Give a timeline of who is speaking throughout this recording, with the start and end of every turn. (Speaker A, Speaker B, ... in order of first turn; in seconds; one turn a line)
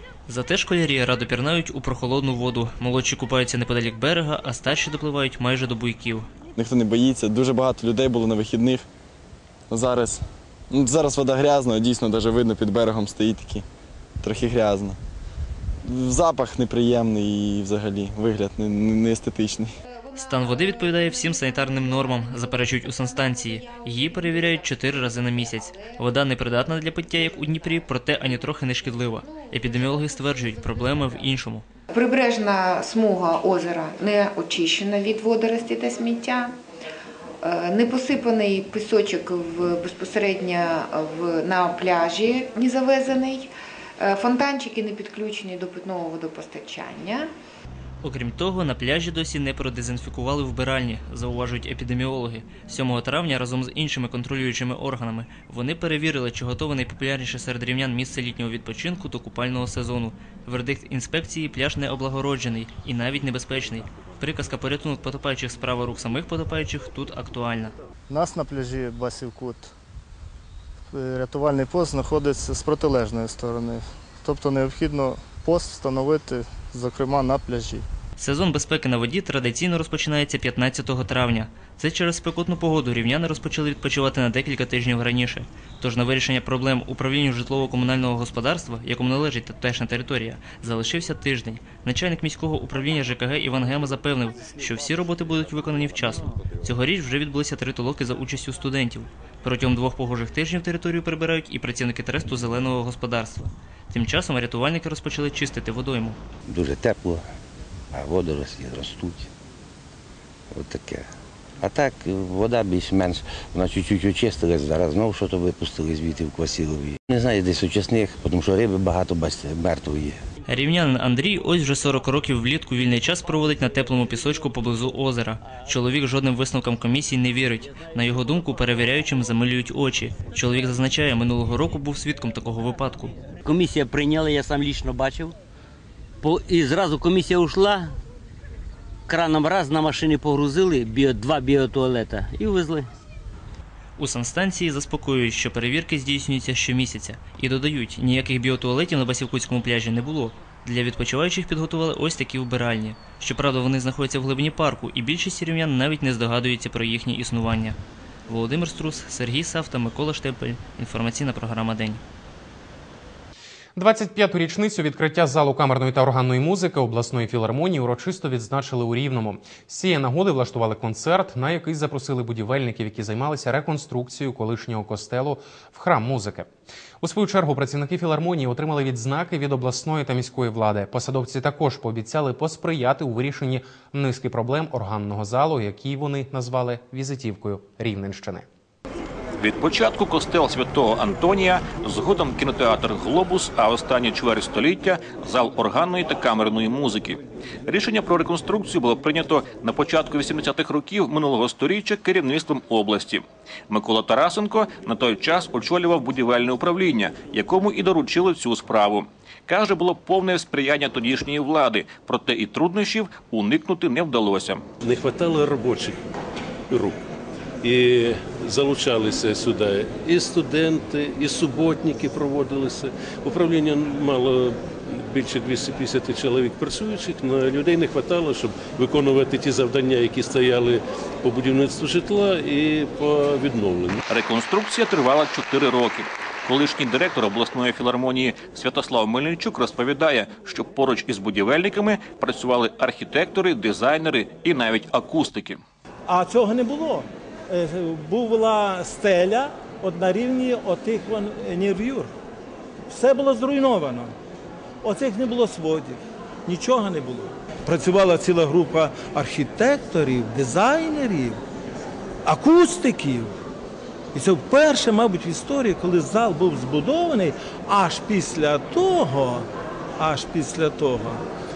Speaker A: 0.3-6.3
Speaker B: 6.6-8.8
Speaker B: 9.7-13.6
Speaker B: 14.2-15.0
Speaker B: 15.8-19.7
Speaker A: 20.2-31.6
Speaker C: 31.9-36.5
Speaker C: 37.4-47.3
Speaker A: 48.0-67.7
Speaker D: 68.1-69.7
Speaker D: 70.9-77.8
Speaker A: 78.2-106.2
Speaker E: 106.5-107.3
Speaker E: 107.9-109.3
Speaker E: 110.5-111.1
Speaker E: 111.6-120.2
Speaker A: 120.5-133.1
Speaker F: 133.4-135.3
Speaker F: 136.2-138.0
Speaker F: 139.1-142.9
Speaker A: 144.0-162.0
Speaker G: 163.8-176.5
Speaker G: 177.0-188.5
Speaker H: 189.4-214.6
Speaker I: 214.8-216.0
Speaker I: 216.7-217.0
Speaker I: 217.6-234.0
Speaker H: 234.1-245.6
Speaker D: 246.1-252.1
Speaker D: 252.9-254.1
Speaker D: 254.8-261.4
Speaker D: 262.2-263.3
Speaker D: 264.1-269.4
Speaker D: 270.0-271.2